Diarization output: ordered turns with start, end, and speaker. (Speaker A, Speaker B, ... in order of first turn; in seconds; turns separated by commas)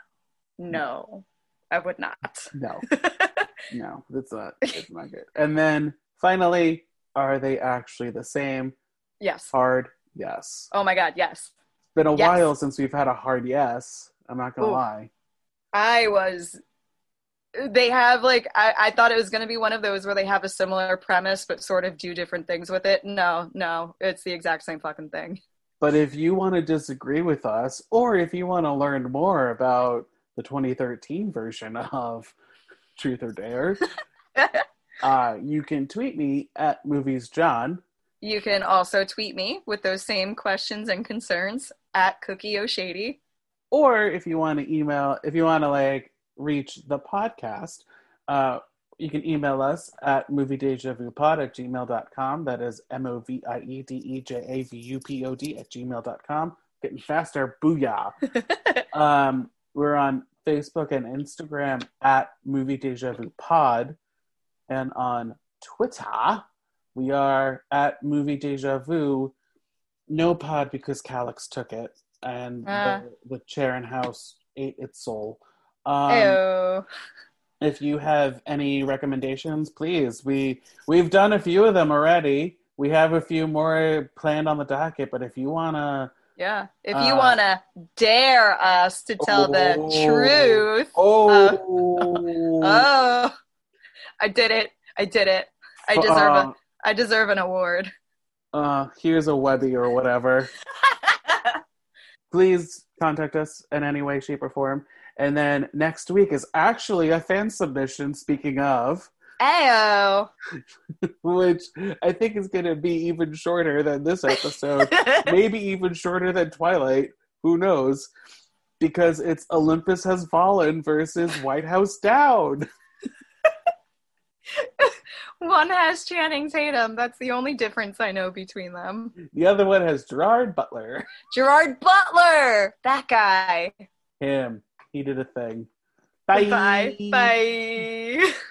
Speaker A: 0.6-3.5, Speaker B: 2.5-2.9, Speaker B: 3.7-8.8, Speaker A: 9.2-9.5, Speaker B: 9.5-10.7, Speaker A: 10.7-11.5, Speaker B: 11.9-15.1, Speaker A: 12.2-12.5, Speaker A: 15.7-16.6, Speaker A: 17.6-25.4, Speaker B: 25.8-32.4, Speaker B: 33.0-33.9, Speaker A: 34.4-34.6, Speaker B: 35.0-37.8, Speaker A: 38.2-43.2, Speaker B: 43.7-58.2, Speaker B: 58.9-64.0, Speaker B: 64.7-69.3, Speaker B: 70.1-76.4, Speaker A: 72.7-73.0, Speaker A: 76.1-76.9, Speaker B: 77.6-86.1, Speaker A: 86.4-93.3, Speaker B: 86.9-87.4, Speaker B: 89.2-92.8, Speaker A: 94.2-97.9, Speaker B: 95.9-96.5, Speaker B: 98.5-100.5, Speaker A: 100.8-101.6, Speaker B: 102.3-109.1, Speaker A: 109.4-110.3, Speaker B: 111.2-118.1, Speaker A: 114.8-115.3, Speaker B: 118.8-122.7, Speaker A: 124.5-129.2, Speaker B: 129.2-131.1, Speaker A: 131.3-133.8, Speaker B: 134.2-135.7, Speaker B: 136.3-137.3, Speaker A: 136.3-138.3